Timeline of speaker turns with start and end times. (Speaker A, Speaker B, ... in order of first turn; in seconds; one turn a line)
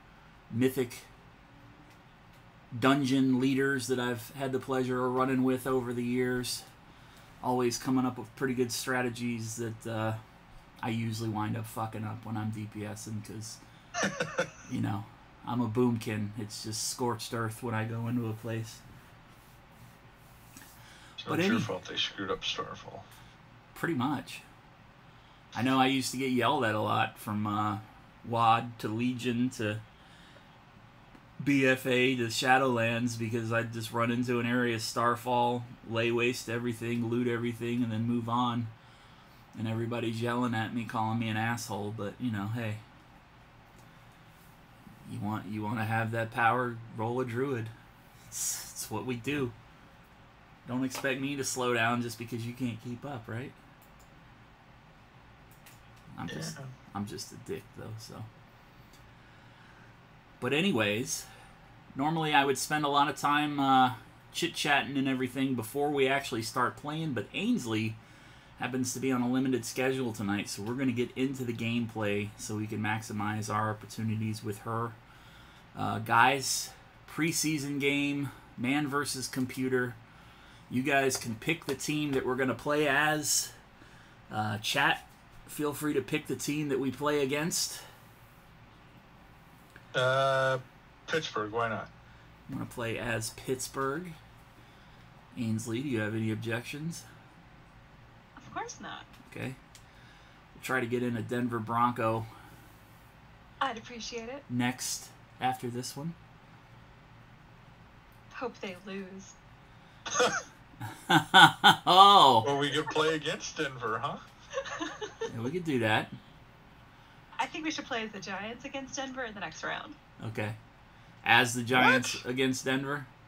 Speaker A: 0.5-1.1
Speaker A: 2.7-6.7
Speaker A: 7.4-10.2
Speaker A: 10.8-13.6
Speaker B: 14.2-14.4
Speaker A: 14.7-18.8
Speaker B: 21.2-23.1
Speaker A: 21.3-21.7
Speaker A: 23.7-24.4
Speaker A: 25.5-29.8
Speaker A: 31.4-38.7
Speaker A: 39.5-42.8
Speaker A: 45.0-47.7
Speaker A: 48.3-49.5
Speaker A: 50.7-53.5
Speaker A: 56.2-58.3
Speaker B: 56.3-56.7
Speaker A: 60.4-61.3
Speaker A: 62.0-68.0
Speaker A: 68.6-75.0
Speaker A: 75.8-80.0
Speaker A: 80.7-83.5
Speaker A: 84.3-87.8
Speaker B: 89.9-91.9
Speaker A: 92.5-94.2
Speaker A: 95.3-97.0
Speaker C: 98.4-99.1
Speaker A: 99.3-99.6
Speaker A: 100.5-102.3
Speaker C: 103.6-104.4
Speaker A: 104.5-106.2
Speaker C: 108.3-109.3
Speaker B: 110.1-110.4
Speaker A: 110.9-112.5
Speaker B: 112.4-114.2
Speaker C: 114.6-115.2
Speaker A: 115.3-116.1
Speaker C: 117.4-120.0
Speaker A: 120.2-120.6
Speaker A: 121.2-123.1
Speaker B: 121.7-122.2